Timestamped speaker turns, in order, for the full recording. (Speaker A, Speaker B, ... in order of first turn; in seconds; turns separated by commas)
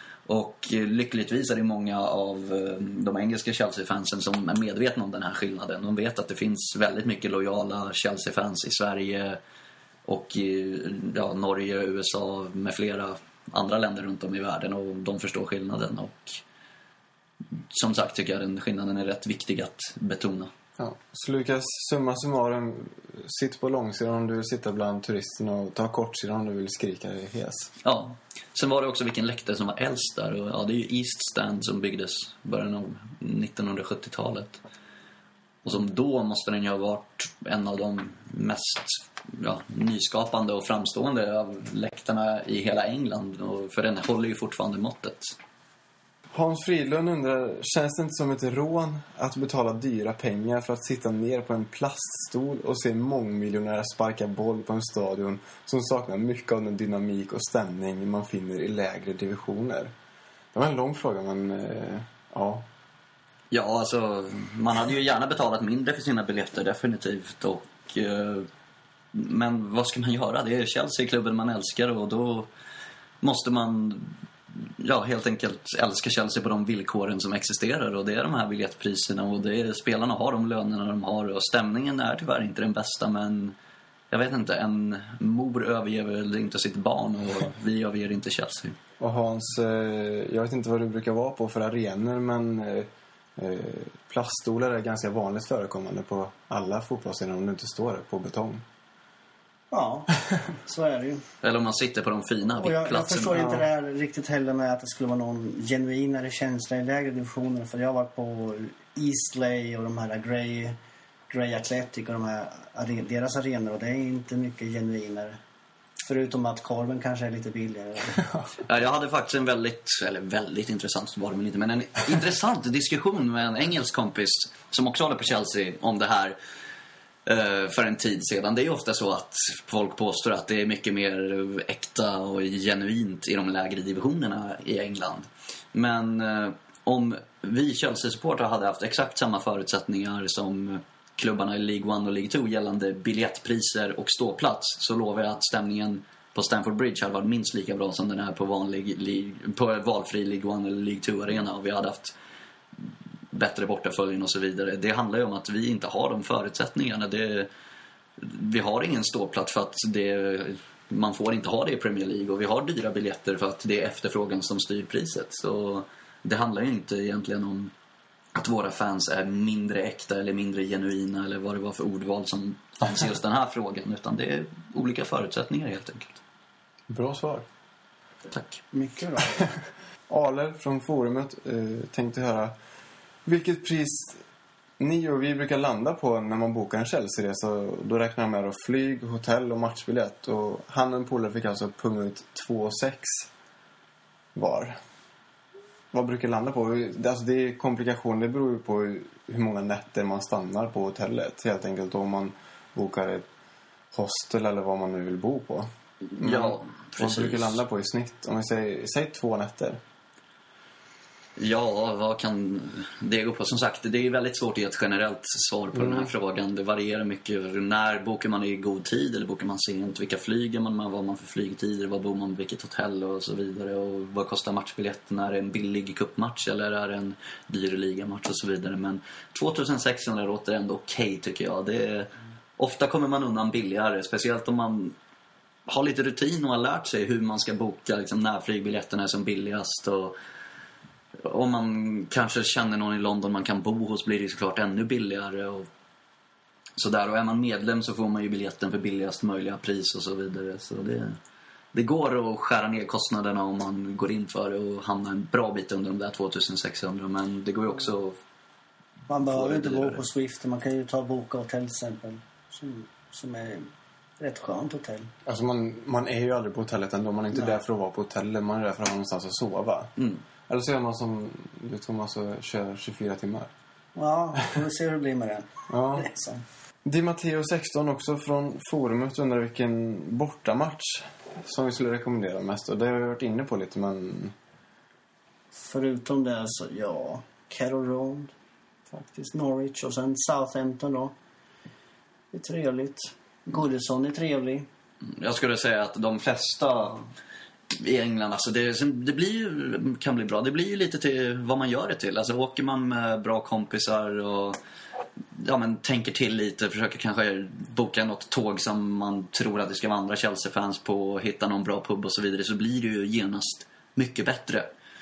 Speaker A: 0.2-9.4, Speaker A: 10.1-16.4, Speaker A: 17.6-20.5, Speaker B: 20.8-27.7, Speaker A: 27.8-34.6, Speaker A: 35.6-45.4, Speaker B: 46.3-59.9, Speaker B: 60.5-62.7, Speaker A: 63.5-68.5, Speaker A: 69.1-72.5, Speaker A: 73.2-83.5, Speaker A: 84.1-88.8, Speaker B: 89.0-98.6, Speaker C: 99.7-101.2, Speaker A: 101.4-103.4, Speaker C: 102.5-110.8, Speaker B: 103.3-103.6, Speaker C: 111.3-115.4, Speaker C: 116.0-118.2, Speaker A: 118.6-126.4, Speaker A: 127.2-152.1, Speaker A: 153.3-157.5, Speaker A: 158.2-167.7, Speaker A: 168.3-176.2, Speaker B: 176.9-177.5, Speaker A: 178.3-178.6, Speaker C: 178.7-179.5, Speaker B: 180.1-182.5, Speaker B: 183.2-184.2, Speaker B: 184.8-193.3, Speaker B: 194.3-194.8, Speaker B: 195.9-203.3, Speaker B: 203.9-209.8, Speaker A: 206.2-207.6, Speaker A: 211.4-234.9, Speaker B: 215.7-216.1, Speaker A: 235.7-240.2, Speaker A: 241.2-245.7, Speaker A: 246.8-251.2, Speaker A: 251.7-258.2, Speaker C: 259.1-263.7, Speaker A: 259.3-260.0, Speaker C: 264.2-265.1, Speaker B: 265.2-269.9, Speaker B: 270.5-273.5, Speaker C: 273.9-276.4, Speaker B: 275.7-276.1, Speaker B: 276.8-284.3, Speaker C: 285.5-288.3, Speaker C: 288.9-291.1, Speaker C: 292.3-294.7, Speaker A: 295.1-297.1, Speaker A: 297.7-304.6, Speaker A: 305.3-314.7